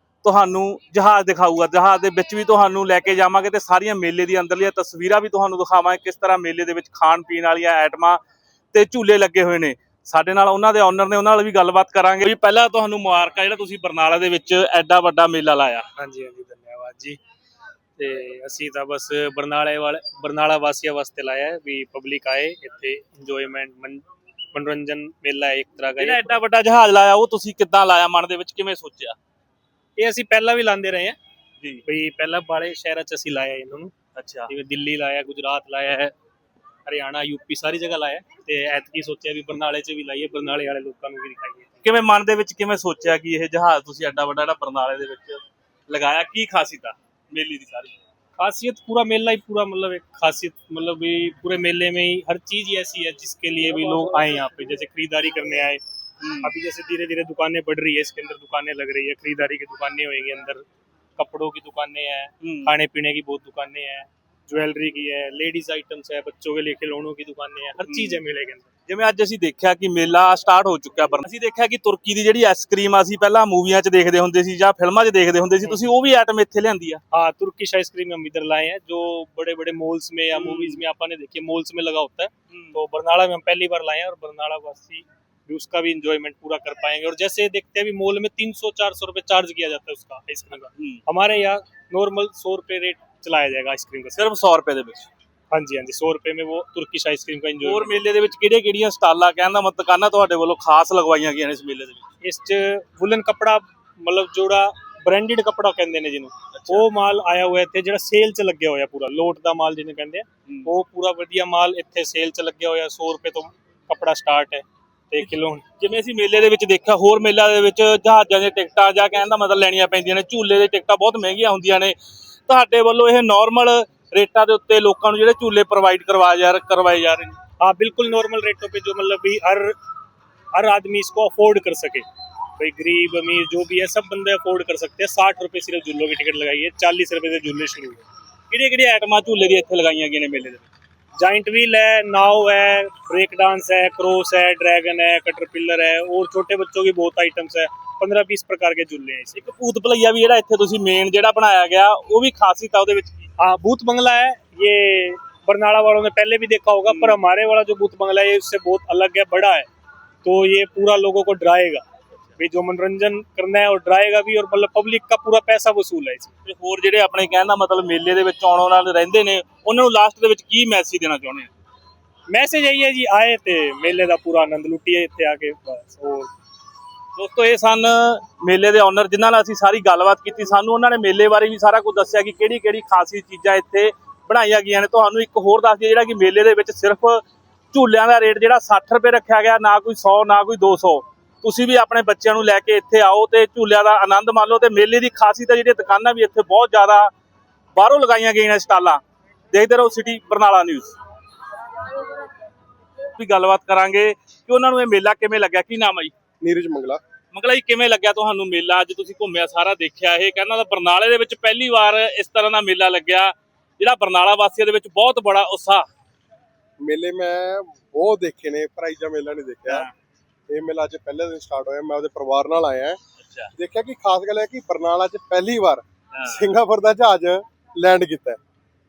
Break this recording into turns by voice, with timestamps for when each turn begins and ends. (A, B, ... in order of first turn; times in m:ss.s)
0:00.2-0:08.2 A
0:08.7-0:15.9 A
0:16.0-0:17.2 B
0:18.0-0:26.4 B
0:26.0-0:29.2 A
0:30.0-0:31.2 B
0:31.8-0:33.9 B
0:34.2-0:34.5 A
0:34.5-0:36.1 B
0:36.8-0:41.8 B
0:41.8-0:48.0 A
0:48.4-0:55.8 B
0:56.2-0:56.5 A
0:56.4-1:00.6 B
1:01.2-1:08.7 B
1:02.4-1:02.7 A
1:07.8-1:08.2 A
1:08.9-1:17.0 A
1:17.1-1:34.2 B
1:20.3-1:20.8 A
1:22.5-1:22.8 A
1:30.7-1:31.0 A
1:34.1-1:35.1 A
1:35.5-1:38.0 B
1:37.6-1:42.1 A
1:42.2-1:55.6 B
1:46.5-1:46.9 A
1:55.2-2:02.0 A
2:02.5-2:07.4 A
2:07.6-2:09.8 B
2:10.5-2:18.0 B
2:18.5-2:20.7 A
2:21.2-2:29.4 B
2:29.3-2:33.3 A
2:33.4-2:39.7 B
2:36.9-2:37.2 A
2:40.2-2:41.8 B
2:42.4-2:46.3 B
2:46.4-2:51.5 A
2:52.3-2:56.3 B
2:57.2-3:17.1 A
3:17.7-3:19.0 A
3:19.5-3:21.0 A
3:23.1-3:26.1 A
3:26.4-3:27.0 C
3:27.3-3:35.9 A
3:36.8-3:39.9 C
3:40.5-3:43.0 C
3:43.2-3:43.5 A
3:43.5-3:48.4 C
3:46.1-3:46.5 A